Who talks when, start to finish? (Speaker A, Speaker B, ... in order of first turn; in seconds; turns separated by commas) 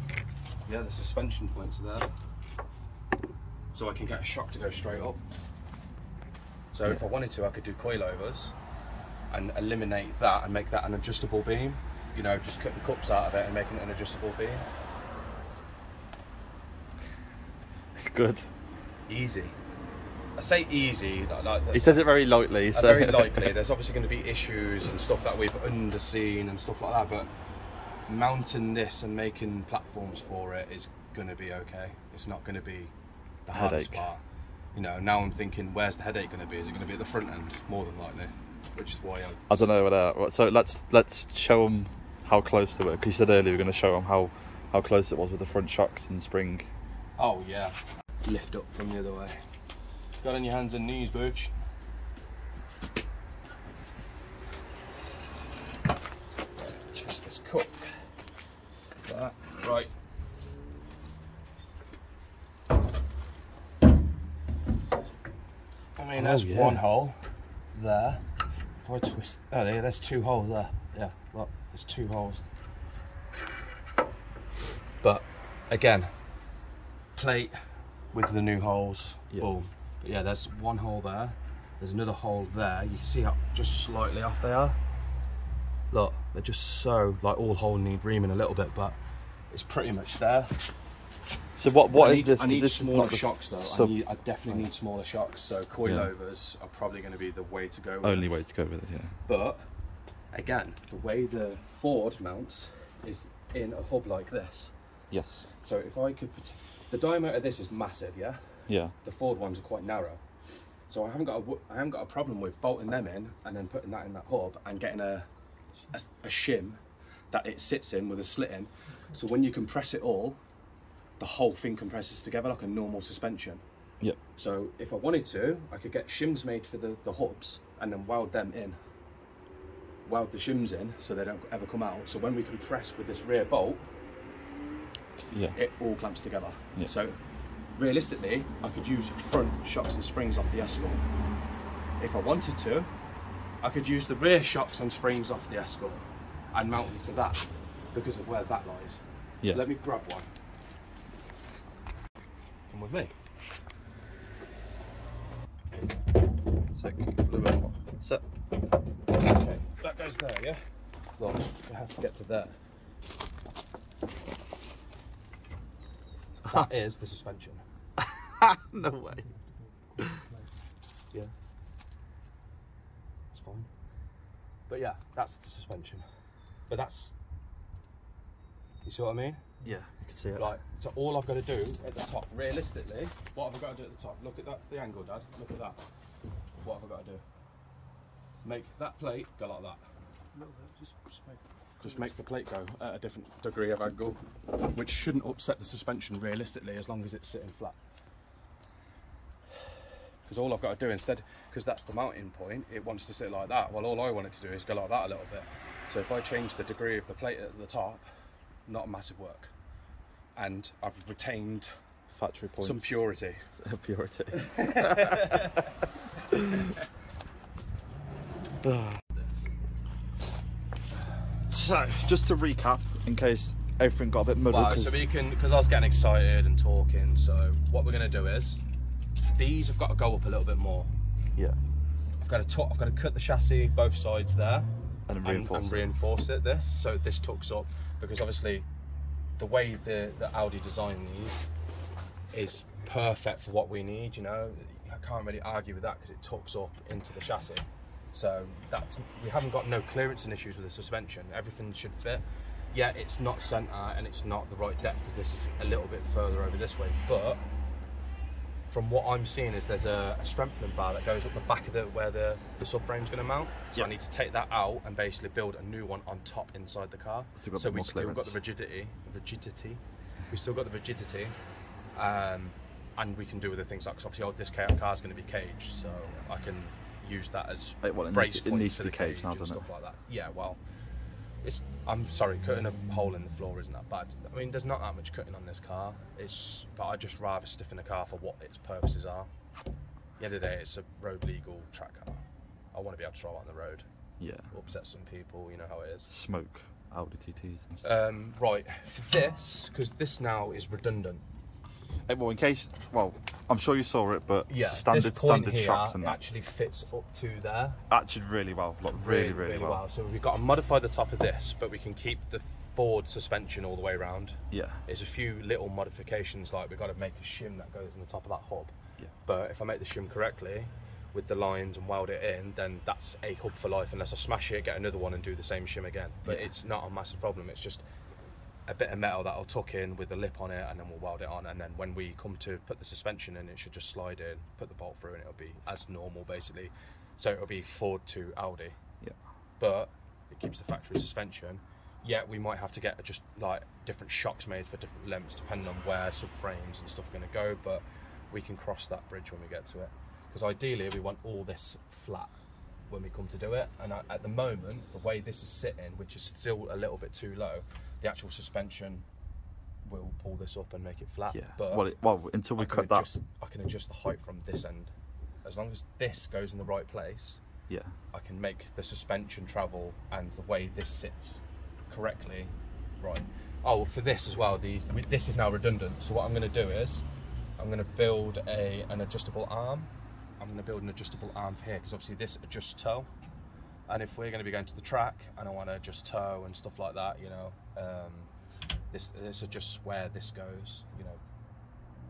Speaker A: 0.7-2.1, Speaker A: 3.7-5.2, Speaker A: 6.7-8.5, Speaker A: 9.3-14.7, Speaker B: 17.9-18.5, Speaker A: 19.1-19.6, Speaker A: 20.4-22.1, Speaker B: 21.7-23.5, Speaker A: 22.7-27.3, Speaker A: 28.1-32.9, Speaker A: 33.5-34.2, Speaker B: 33.5-34.0, Speaker A: 34.8-39.7, Speaker B: 39.5-46.7, Speaker A: 47.2-49.4, Speaker A: 50.2-51.5, Speaker A: 56.8-58.0, Speaker A: 59.0-59.9, Speaker A: 66.0-67.2, Speaker B: 66.2-66.8, Speaker A: 67.7-68.2, Speaker A: 68.8-72.4, Speaker A: 75.0-76.1, Speaker A: 77.2-77.6, Speaker A: 78.1-84.8, Speaker A: 85.9-89.0, Speaker A: 89.5-90.5, Speaker B: 91.5-93.9, Speaker A: 91.9-98.5, Speaker B: 95.8-96.1, Speaker B: 98.0-99.1, Speaker A: 99.3-99.7, Speaker A: 100.3-104.7, Speaker B: 105.1-105.5, Speaker A: 105.6-110.2, Speaker B: 108.7-108.9, Speaker A: 110.9-115.3, Speaker A: 115.9-116.8, Speaker A: 117.3-120.4, Speaker A: 121.2-123.6, Speaker A: 124.4-128.8, Speaker A: 130.1-133.9, Speaker B: 135.2-135.6, Speaker A: 135.5-137.2, Speaker A: 137.8-141.0, Speaker A: 142.0-142.9, Speaker A: 143.6-150.3, Speaker A: 152.7-153.1, Speaker B: 156.8-158.2, Speaker A: 159.1-160.6, Speaker A: 161.2-162.6, Speaker A: 166.4-167.6, Speaker B: 168.0-169.3, Speaker C: 169.1-170.5, Speaker A: 173.3-173.7, Speaker A: 174.7-176.1, Speaker A: 176.7-177.1, Speaker A: 178.8-179.4, Speaker B: 179.6-180.5, Speaker A: 180.4-185.8, Speaker A: 186.6-187.2, Speaker A: 188.4-189.8, Speaker C: 190.3-192.1, Speaker A: 191.8-197.8, Speaker A: 200.3-208.1, Speaker A: 208.7-209.5, Speaker A: 210.4-211.8, Speaker B: 212.1-213.0, Speaker A: 212.6-213.5, Speaker B: 213.5-215.7, Speaker A: 214.3-215.7, Speaker B: 216.2-216.8, Speaker B: 218.6-219.0, Speaker A: 219.2-219.5, Speaker B: 221.5-225.0, Speaker A: 224.5-228.6, Speaker A: 229.3-230.9, Speaker A: 232.2-234.7, Speaker B: 235.1-235.9, Speaker A: 235.2-238.7, Speaker A: 239.4-241.5, Speaker A: 242.3-257.4, Speaker A: 258.7-271.4, Speaker B: 267.4-268.4, Speaker A: 271.9-280.6, Speaker B: 277.8-279.6, Speaker A: 281.4-289.3, Speaker A: 290.2-292.2, Speaker A: 292.7-293.9, Speaker B: 294.2-294.5, Speaker A: 294.5-296.1, Speaker B: 296.1-297.8, Speaker A: 297.8-301.2, Speaker B: 302.1-306.2, Speaker A: 304.5-307.8, Speaker B: 307.9-309.8, Speaker A: 309.0-318.7, Speaker B: 314.5-314.8, Speaker A: 319.3-327.8, Speaker A: 328.7-338.8, Speaker A: 339.6-352.3, Speaker A: 352.9-359.1, Speaker A: 359.8-361.9, Speaker B: 361.3-363.1, Speaker A: 362.6-364.9, Speaker A: 365.4-367.4, Speaker B: 367.7-368.0, Speaker A: 368.1-377.0, Speaker A: 377.6-383.1, Speaker A: 383.9-388.3, Speaker A: 388.9-391.2